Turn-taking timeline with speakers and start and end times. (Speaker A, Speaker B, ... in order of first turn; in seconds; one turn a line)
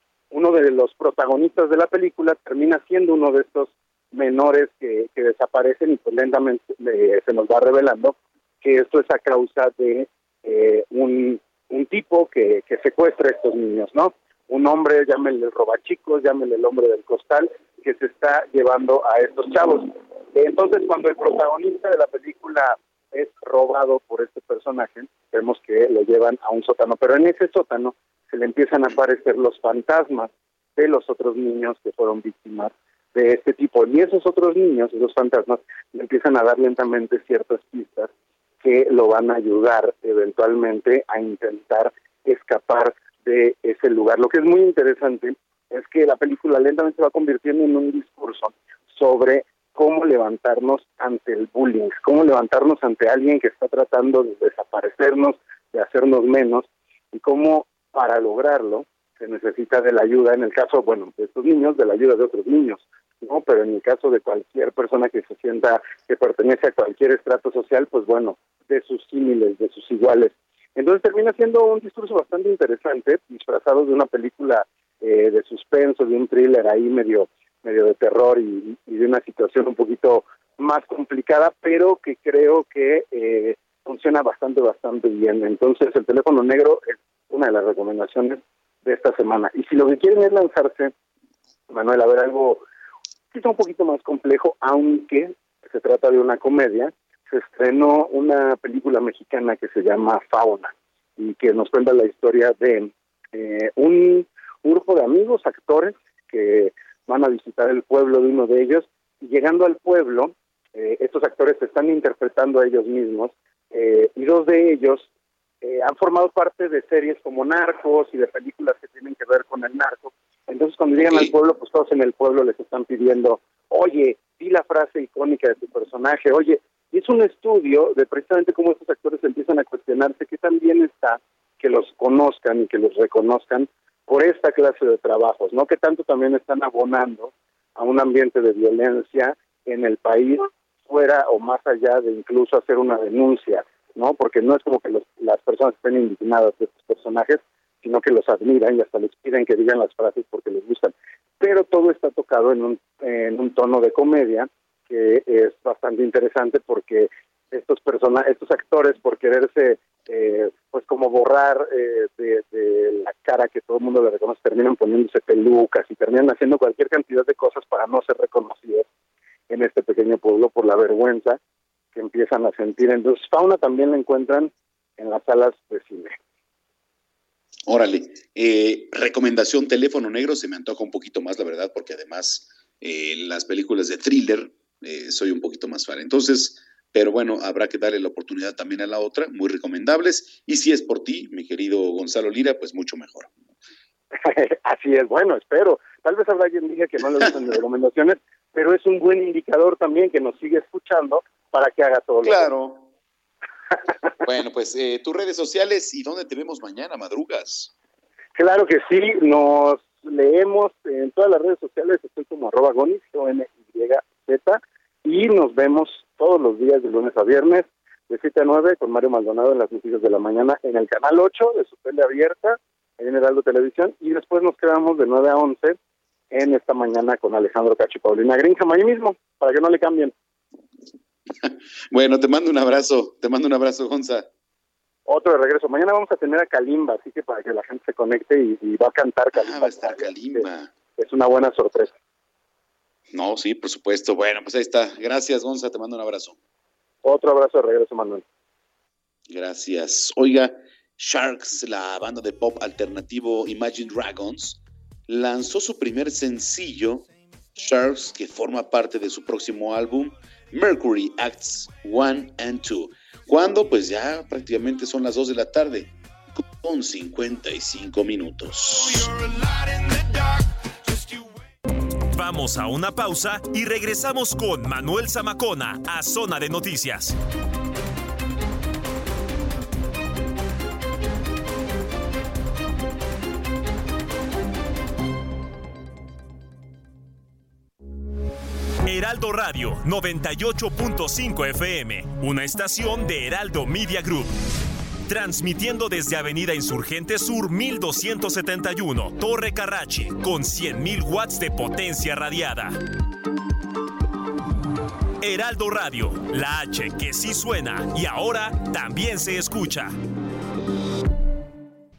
Speaker A: 0.3-38.1
Speaker A: 38.6-90.9
Speaker A: 91.7-92.6
Speaker A: 93.3-115.0
Speaker A: 115.6-168.8
Speaker B: 121.0-121.3
Speaker A: 169.5-171.4
Speaker A: 172.0-176.1
Speaker B: 177.7-193.3
Speaker A: 194.7-202.5
Speaker B: 202.2-202.9
Speaker B: 204.2-207.7
Speaker A: 208.4-225.7
Speaker A: 226.3-230.1
Speaker B: 231.4-234.3
Speaker A: 235.1-240.4
Speaker B: 239.3-240.7
Speaker A: 241.0-241.9
Speaker B: 243.1-246.4
Speaker A: 247.1-248.2
Speaker B: 249.3-257.0
Speaker B: 257.6-265.9
Speaker B: 266.6-269.1
Speaker C: 272.1-277.2
Speaker C: 288.9-294.3
Speaker C: 295.1-302.8
Speaker C: 305.2-309.9